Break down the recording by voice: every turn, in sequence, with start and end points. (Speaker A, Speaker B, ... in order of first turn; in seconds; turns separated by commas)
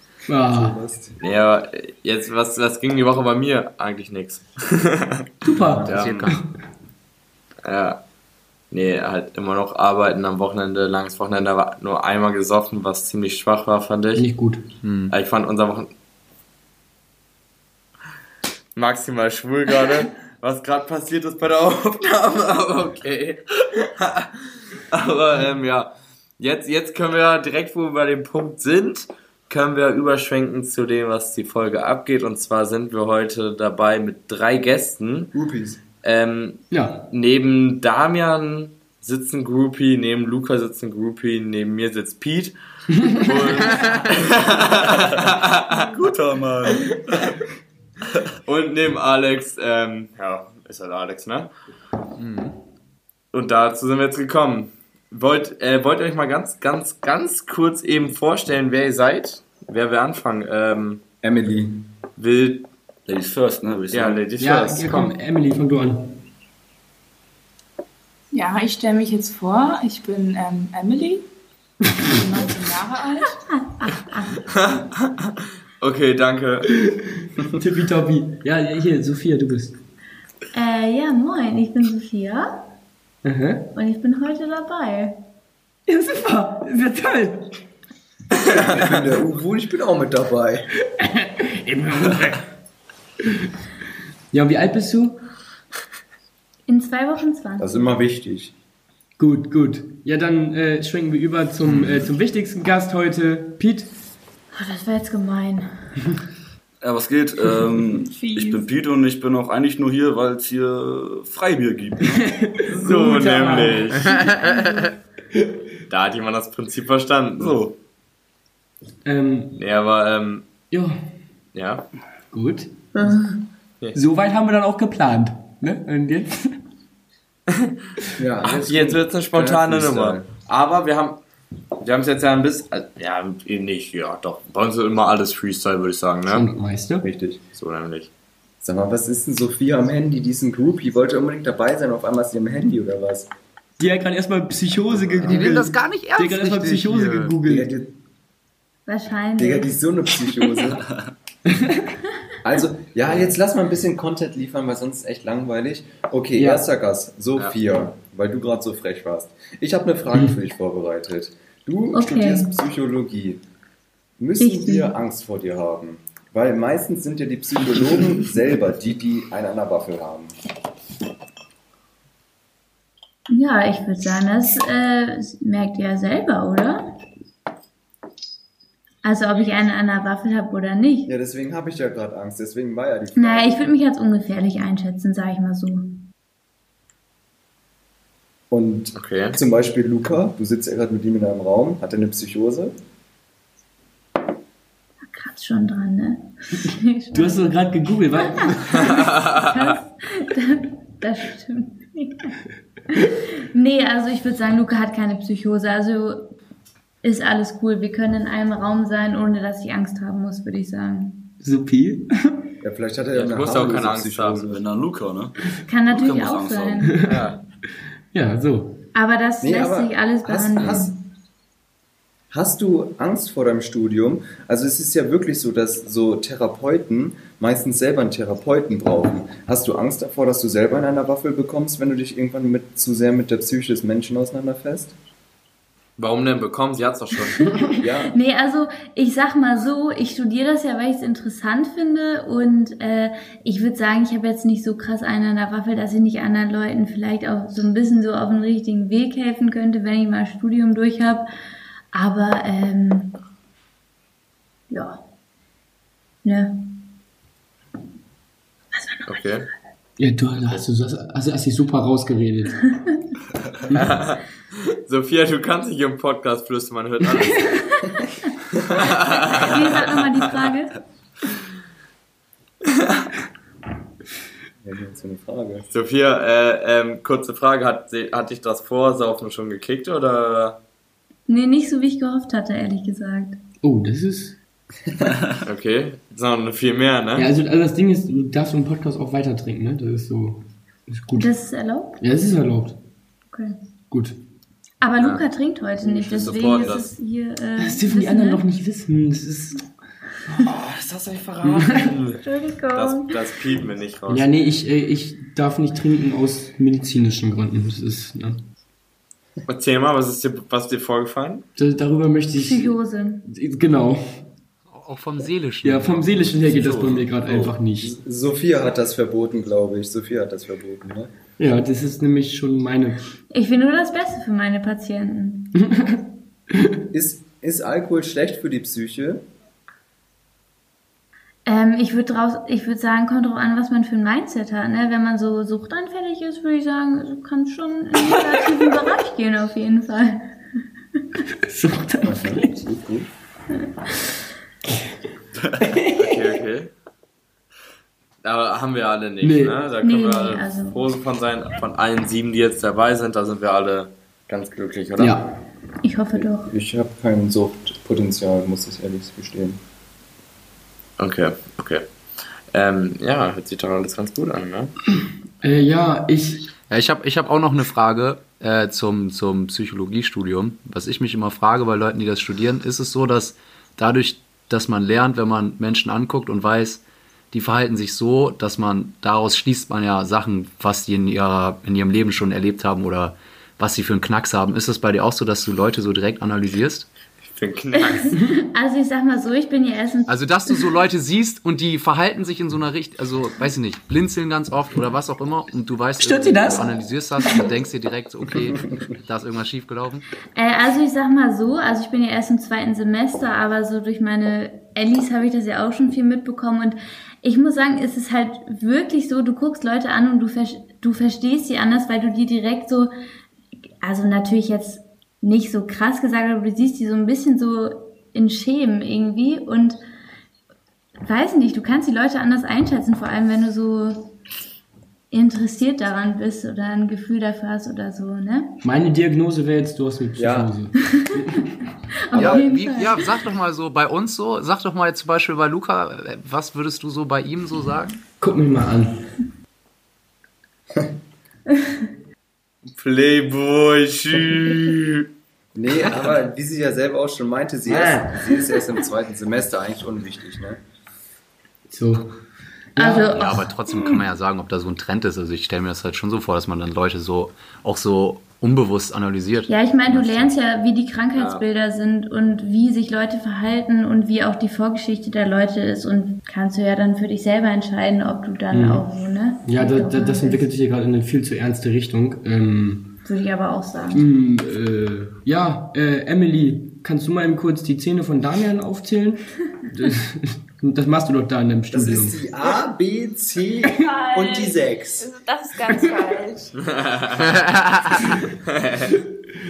Speaker A: 0.3-0.8, Speaker B: 0.5-1.1, Speaker C: 1.2-5.2, Speaker A: 5.4-6.5, Speaker D: 5.8-6.4, Speaker C: 5.9-6.2, Speaker C: 7.6-8.0, Speaker C: 8.7-14.3, Speaker A: 14.1-14.6, Speaker D: 14.8-15.1, Speaker C: 15.1-15.9, Speaker C: 18.8-35.3, Speaker B: 35.3-35.8, Speaker C: 36.0-47.4, Speaker A: 36.7-37.1, Speaker D: 43.6-44.0, Speaker E: 45.9-47.3, Speaker C: 48.4-51.5, Speaker D: 52.2-52.5, Speaker C: 53.3-61.0, Speaker B: 61.2-61.9, Speaker C: 62.2-62.7, Speaker E: 63.1-64.2, Speaker C: 63.9-65.1, Speaker A: 64.4-66.2, Speaker F: 68.3-71.2, Speaker F: 72.1-73.4, Speaker G: 73.5-74.5, Speaker C: 74.5-76.7, Speaker A: 77.6-79.8, Speaker G: 80.5-82.5, Speaker A: 83.2-83.7, Speaker G: 83.7-85.2, Speaker A: 85.9-87.6, Speaker B: 88.4-90.7, Speaker A: 91.0-92.5, Speaker A: 94.3-95.2, Speaker G: 96.7-97.8, Speaker B: 97.6-98.5, Speaker A: 99.2-103.9, Speaker E: 101.7-102.1, Speaker G: 104.5-105.9, Speaker E: 106.8-112.2, Speaker F: 108.0-108.6, Speaker A: 112.1-114.0, Speaker C: 112.7-114.2, Speaker D: 114.0-114.8, Speaker C: 115.9-117.7, Speaker A: 119.0-119.6, Speaker C: 119.5-120.5, Speaker A: 120.7-121.0, Speaker C: 121.5-121.9, Speaker A: 122.3-122.8, Speaker A: 123.9-126.6, Speaker C: 127.5-127.7, Speaker B: 128.2-130.2, Speaker C: 128.4-131.2, Speaker C: 131.8-136.5, Speaker A: 136.2-137.1, Speaker B: 137.0-137.4, Speaker C: 137.5-138.1, Speaker B: 138.6-143.3, Speaker A: 143.8-147.7, Speaker C: 144.9-145.3, Speaker D: 145.2-147.4, Speaker B: 147.4-147.9, Speaker G: 148.9-149.7, Speaker B: 149.4-150.8, Speaker E: 150.8-151.1, Speaker A: 151.6-151.9, Speaker B: 152.4-163.4, Speaker A: 156.3-156.6, Speaker G: 161.9-162.5, Speaker B: 164.2-170.3, Speaker G: 164.4-164.9, Speaker G: 173.3-176.9, Speaker G: 179.0-181.1, Speaker B: 181.1-183.6, Speaker G: 183.2-185.9, Speaker B: 188.5-192.7, Speaker C: 188.9-189.4, Speaker G: 195.1-197.6, Speaker A: 197.1-198.8, Speaker G: 198.1-202.3, Speaker C: 198.9-199.3, Speaker G: 203.0-206.3, Speaker G: 207.0-211.2, Speaker A: 211.4-212.5, Speaker B: 212.6-214.6, Speaker C: 213.1-214.4, Speaker E: 214.5-215.3, Speaker G: 215.7-216.9, Speaker E: 215.9-216.9, Speaker A: 216.9-217.3, Speaker C: 217.1-217.4, Speaker A: 218.1-218.8, Speaker G: 218.9-220.9, Speaker B: 219.4-221.0, Speaker B: 222.3-234.9, Speaker C: 236.0-237.5, Speaker B: 237.8-238.1, Speaker G: 238.1-251.3, Speaker G: 251.9-253.2, Speaker G: 254.7-255.0, Speaker G: 256.2-256.5, Speaker G: 258.8-259.1, Speaker C: 259.1-259.5, Speaker A: 260.0-262.6, Speaker C: 263.7-264.2, Speaker C: 264.8-267.6, Speaker C: 268.7-270.4, Speaker G: 269.1-270.7, Speaker B: 274.6-275.7, Speaker C: 275.7-280.6, Speaker G: 281.3-283.4, Speaker A: 283.6-284.4, Speaker C: 285.4-287.3, Speaker A: 287.1-291.3, Speaker G: 291.1-292.0, Speaker A: 292.0-292.8, Speaker A: 293.9-294.2, Speaker G: 294.8-298.4, Speaker C: 295.8-296.9, Speaker A: 297.6-299.7, Speaker C: 300.4-302.2, Speaker A: 301.4-301.9, Speaker G: 302.2-303.1, Speaker C: 302.7-304.3, Speaker A: 304.1-308.4, Speaker C: 309.5-311.4, Speaker A: 311.6-314.2, Speaker G: 312.4-313.2, Speaker D: 314.7-316.6, Speaker A: 315.6-317.9, Speaker E: 316.5-317.6, Speaker B: 317.8-321.1, Speaker A: 321.4-323.1, Speaker G: 323.3-325.5, Speaker A: 325.6-326.0, Speaker A: 326.6-326.8, Speaker B: 326.9-329.2, Speaker G: 331.4-340.4, Speaker A: 341.5-342.6, Speaker B: 342.0-343.1, Speaker A: 345.7-346.2, Speaker C: 345.9-346.7, Speaker C: 348.2-355.2, Speaker A: 349.2-349.6, Speaker G: 349.8-350.8, Speaker A: 355.0-355.3, Speaker G: 355.8-356.5, Speaker B: 356.2-359.6, Speaker C: 361.0-361.9, Speaker C: 362.5-364.7, Speaker A: 365.4-366.5, Speaker D: 366.7-386.9, Speaker C: 387.3-388.2, Speaker G: 387.7-390.6, Speaker D: 390.1-400.0, Speaker A: 396.0-397.5, Speaker G: 400.3-412.9, Speaker G: 413.8-419.8, Speaker G: 421.0-424.1, Speaker G: 425.1-428.6, Speaker A: 428.6-431.4, Speaker B: 430.2-430.5, Speaker G: 432.1-433.0, Speaker B: 432.1-432.4, Speaker D: 432.2-438.0, Speaker A: 438.2-439.2, Speaker C: 442.8-445.0, Speaker B: 445.5-450.6, Speaker A: 447.7-448.2, Speaker A: 451.7-452.1, Speaker A: 452.8-453.1, Speaker G: 452.8-453.5, Speaker D: 453.1-460.3, Speaker G: 459.5-470.5, Speaker C: 461.1-461.4, Speaker A: 468.5-468.8, Speaker A: 469.4-472.9, Speaker G: 473.0-474.0, Speaker A: 473.9-482.2, Speaker B: 481.7-485.1, Speaker F: 483.8-486.6, Speaker A: 485.7-486.1, Speaker C: 486.6-487.3, Speaker C: 488.5-488.9